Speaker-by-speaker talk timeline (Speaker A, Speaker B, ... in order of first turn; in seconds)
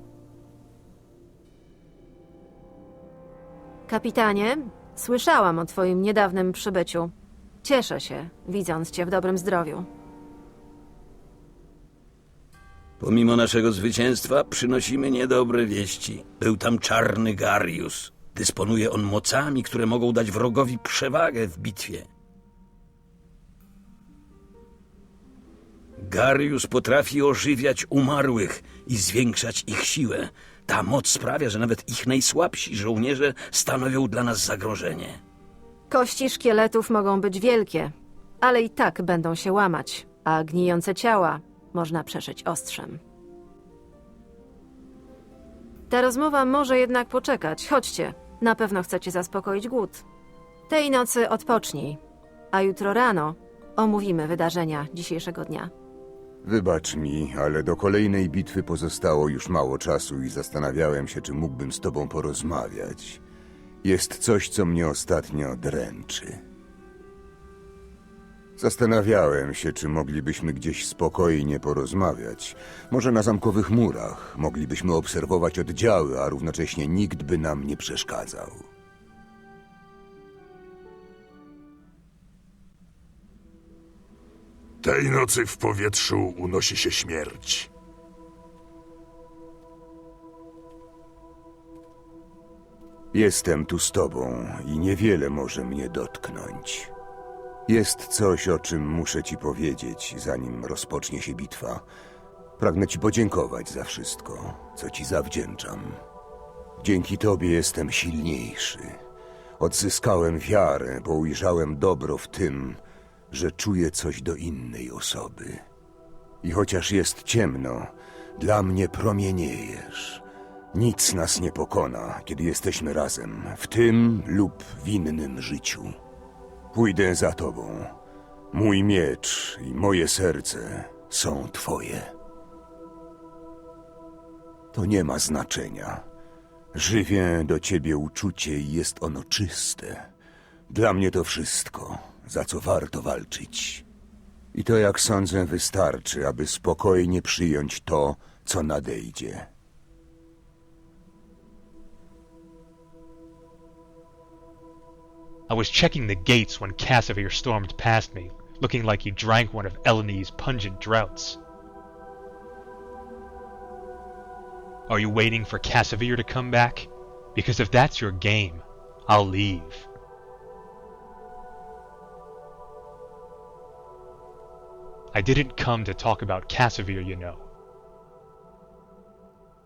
Speaker A: 3.9-7.1, 7.6-9.9, 35.9-43.0, 45.9-50.0, 50.7-52.0, 52.5-55.7
Speaker B: 13.0-22.1, 26.0-35.2
Speaker C: 56.4-63.2, 63.8-66.4, 68.6-78.7, 93.1-96.9, 97.7-101.8, 102.6-106.0, 106.8-109.0, 109.6-112.8, 113.3-115.6, 116.4-126.0, 126.7-127.9, 128.5-132.1, 134.7-136.0, 136.7-140.1, 140.7-143.8, 144.5-149.5
Speaker D: 84.8-87.7
Speaker E: 155.5-161.4, 164.9-169.9, 175.1-177.5